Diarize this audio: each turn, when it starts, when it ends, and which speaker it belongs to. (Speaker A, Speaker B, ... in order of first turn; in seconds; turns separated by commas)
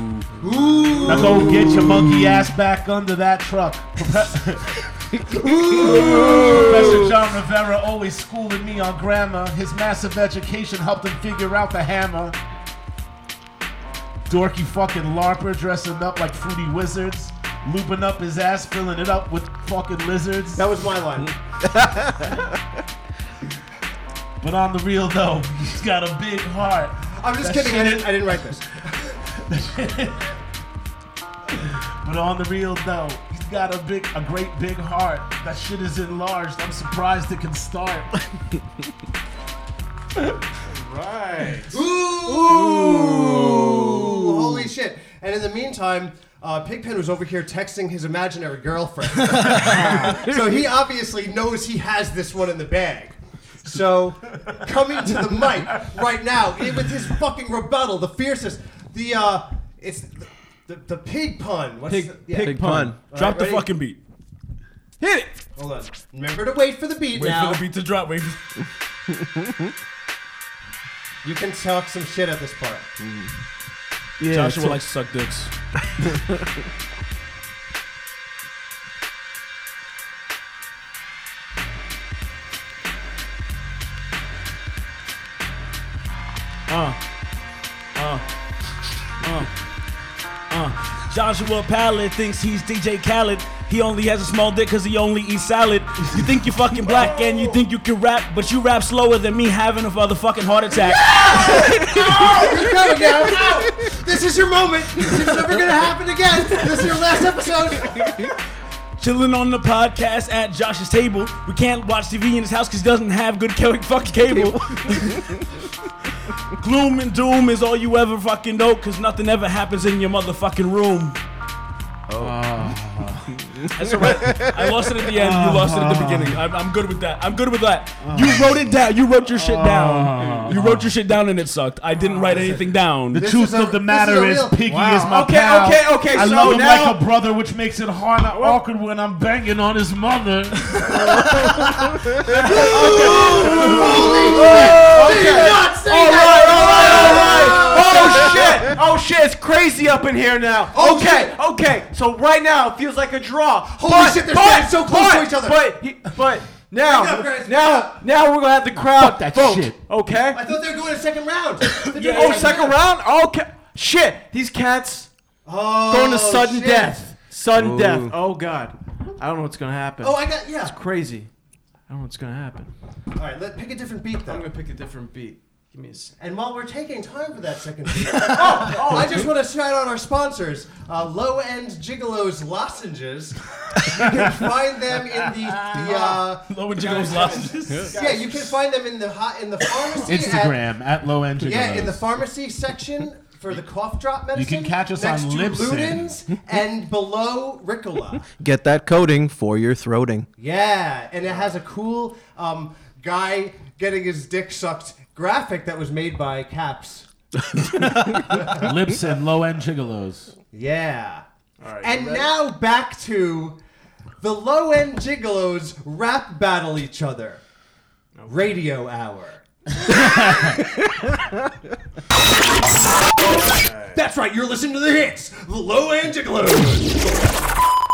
Speaker A: 0.4-1.9, Speaker B: 1.0-12.4, Speaker A: 5.3-7.1, Speaker B: 14.3-20.6, Speaker A: 20.6-21.4, Speaker B: 24.4-28.1, Speaker A: 27.1-28.8, Speaker B: 29.2-30.4, Speaker B: 31.5-38.2, Speaker C: 40.9-41.7, Speaker A: 41.7-63.7, Speaker C: 61.9-63.0, Speaker D: 62.3-63.0, Speaker E: 63.1-64.0, Speaker C: 65.0-65.4, Speaker A: 65.6-67.6, Speaker E: 67.1-68.4, Speaker A: 71.2-72.9, Speaker D: 73.0-73.3, Speaker B: 74.2-74.8, Speaker E: 74.2-75.5, Speaker E: 86.7-87.0, Speaker E: 88.0-88.2, Speaker E: 89.2-89.5, Speaker E: 90.5-102.4, Speaker A: 101.1-108.3, Speaker E: 109.0-115.5, Speaker E: 116.5-121.2, Speaker B: 122.2-124.2, Speaker E: 123.7-133.2, Speaker B: 125.0-126.4, Speaker B: 128.0-128.6, Speaker B: 129.3-131.0, Speaker C: 130.1-130.6, Speaker A: 132.2-134.7, Speaker B: 133.1-141.1, Speaker C: 134.7-137.0, Speaker E: 136.3-136.6, Speaker C: 138.3-138.6, Speaker A: 141.2-148.7, Speaker C: 142.3-160.4, Speaker B: 143.2-145.3, Speaker E: 144.6-145.0, Speaker A: 150.7-151.4, Speaker A: 153.7-155.8, Speaker A: 156.8-158.0, Speaker B: 158.7-159.8, Speaker A: 160.3-162.8, Speaker C: 161.8-165.1, Speaker E: 161.9-162.6, Speaker A: 165.4-167.1, Speaker C: 165.9-171.3, Speaker D: 167.5-168.2, Speaker A: 170.0-170.8, Speaker C: 171.9-172.7, Speaker A: 173.2-174.5, Speaker C: 174.3-176.2, Speaker A: 176.2-190.6, Speaker C: 178.1-179.3, Speaker B: 185.4-185.8, Speaker E: 186.4-188.0, Speaker C: 186.8-188.5, Speaker B: 190.0-192.1, Speaker A: 191.4-198.3, Speaker B: 194.3-196.1, Speaker D: 198.4-200.3, Speaker A: 200.4-207.1, Speaker B: 207.8-210.3, Speaker A: 208.3-208.7, Speaker A: 210.5-211.2, Speaker C: 211.6-212.3, Speaker A: 211.8-213.6, Speaker A: 214.2-217.4, Speaker C: 218.2-218.6, Speaker A: 218.2-219.4, Speaker B: 219.9-220.5, Speaker A: 223.7-227.6